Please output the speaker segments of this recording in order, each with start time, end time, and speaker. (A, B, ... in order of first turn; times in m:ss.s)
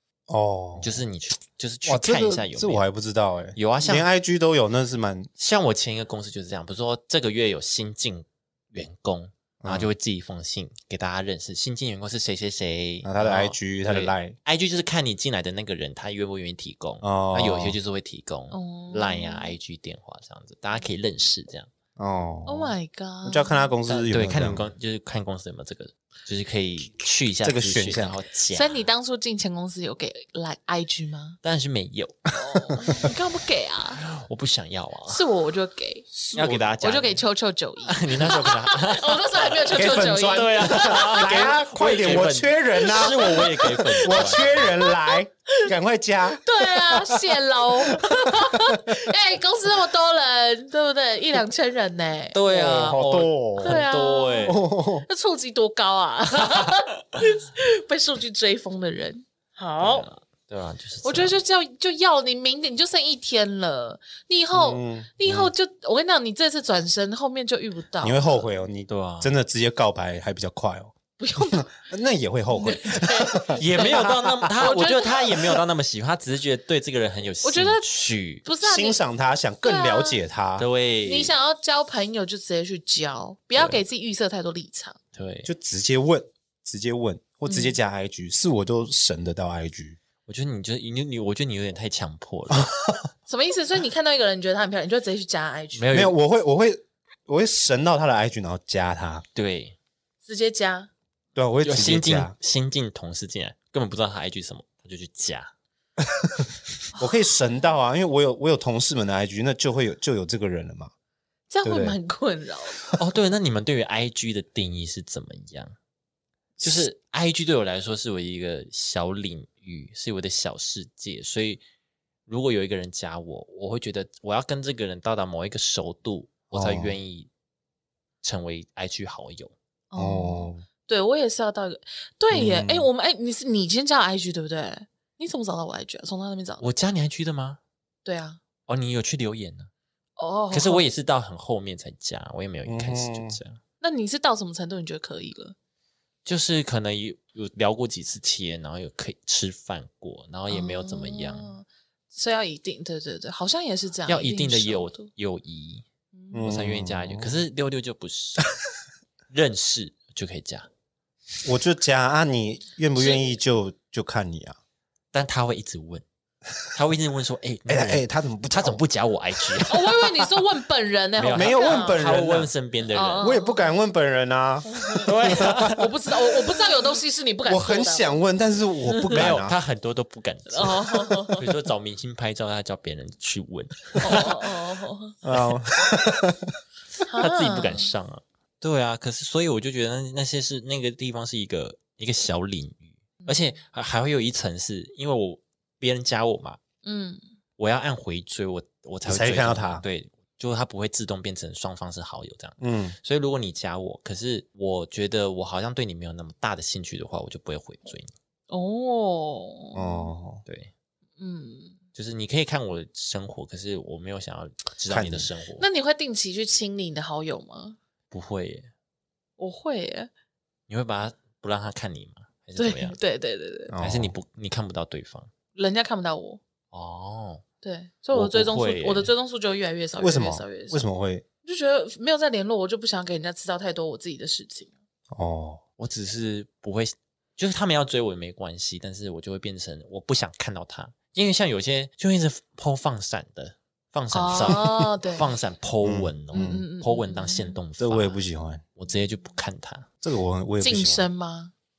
0:00.3-0:01.0 A
0:00.8-0:02.8 B
0:01.8-0:05.3 A
0:03.6-0:04.1 B
0:05.4-0:21.7 B
0:09.6-0:09.9 A
0:13.0-0:14.4 A
0:17.0-0:17.8 A
0:18.5-0:19.6 C
0:22.0-0:24.7 A
0:22.5-0:23.7 C
0:23.9-0:28.8 B
0:27.4-0:28.2 A
0:28.5-0:31.4 C
0:31.4-0:32.3 B
0:32.3-0:34.0 C
0:34.0-0:35.2 B
0:35.1-0:41.6 C
0:36.2-0:36.7 A
0:36.4-0:37.2 B
0:37.8-0:44.7 B
0:39.7-0:48.1 A
0:43.0-0:45.2 C
0:46.4-0:52.4 C
0:52.3-0:54.6 B
0:52.5-0:53.8 A
0:53.6-1:00.1 C
0:54.4-0:55.1 A
0:59.8-1:01.4 B
1:01.0-1:08.2 C
1:04.5-1:05.5 A
1:08.0-1:14.6 A
1:08.9-1:09.3 B
1:11.2-1:11.7 C
1:12.5-1:14.0 C
1:13.6-1:18.5 B
1:14.6-1:15.5 C
1:17.4-1:17.9 C
1:18.4-1:19.0 C
1:18.6-1:20.7 A
1:19.6-1:20.2 C
1:20.6-1:21.3 B
1:21.0-1:25.0 C
1:23.6-1:23.8 B
1:25.2-1:25.5 B
1:25.4-1:30.0 A
1:27.5-1:27.8 C
1:30.3-1:32.7 B
1:33.3-1:35.9 C
1:35.8-1:36.2 B
1:35.9-1:39.2 A
1:39.4-1:39.8 B
1:40.2-1:40.9 C
1:41.4-1:42.3 A
1:41.6-1:45.5 B
1:46.2-1:50.9 A
1:51.5-1:52.8 C
1:51.6-1:52.0 A
1:53.0-1:55.7 B
1:56.6-2:01.6 B
2:02.3-2:07.3 B
2:06.5-2:07.0 A
2:08.2-2:09.5 B
2:09.9-2:16.7 C
2:10.0-2:10.6 A
2:12.3-2:12.9 A
2:16.6-2:17.6 B
2:18.0-2:18.4 C
2:18.7-2:19.7 B
2:20.2-2:20.9 C
2:20.5-2:23.6 B
2:22.7-2:23.4 A
2:23.8-2:25.6 C
2:26.2-2:31.5 B
2:30.5-2:35.1 C
2:34.1-2:35.8 B
2:36.1-2:36.5 C
2:36.3-2:37.4 A
2:36.4-2:38.5 B
2:39.3-2:40.7 B
2:41.4-2:44.6 A
2:43.0-2:43.4 C
2:45.1-2:46.0 B
2:46.7-2:50.4 B
2:47.7-2:48.8 A
2:49.7-2:52.0 C
2:51.2-2:53.3 B
2:51.3-2:52.5 A
2:52.9-2:53.7 C
2:53.2-2:55.8 A
2:54.7-2:58.2 C
2:55.0-2:55.9 B
2:57.5-2:59.6 A
2:59.1-3:04.6 B
3:00.5-3:01.5 C
3:04.0-3:05.2 C
3:05.2-3:06.5 A
3:07.1-3:07.9 C
3:07.2-3:16.6 B
3:16.8-3:17.2 C
3:17.6-3:28.1 B
3:19.0-3:19.8 A
3:22.6-3:23.0 A
3:28.5-3:30.1 C
3:29.7-3:30.4 A
3:30.5-3:30.7 B
3:31.2-3:31.8 C
3:32.0-3:35.7 B
3:34.9-3:35.3 A
3:35.6-3:37.8 C
3:38.1-3:38.7 B
3:39.4-3:40.1 C
3:40.7-3:43.0 B
3:42.6-3:43.8 C
3:43.7-3:44.2 A
3:43.8-3:45.3 B
3:45.6-3:46.4 C
3:46.7-3:47.4 B
3:47.6-3:50.9 C
3:48.1-3:49.1 B
3:50.0-3:51.2 A
3:51.4-3:54.7 C
3:55.1-3:55.6 A
3:55.8-4:08.2 B
4:04.1-4:05.3 C
4:04.4-4:04.7 A
4:05.8-4:06.6 A
4:06.3-4:07.6 C
4:07.8-4:08.6 A
4:08.8-4:09.9 B
4:10.0-4:11.1 A
4:10.6-4:11.5 C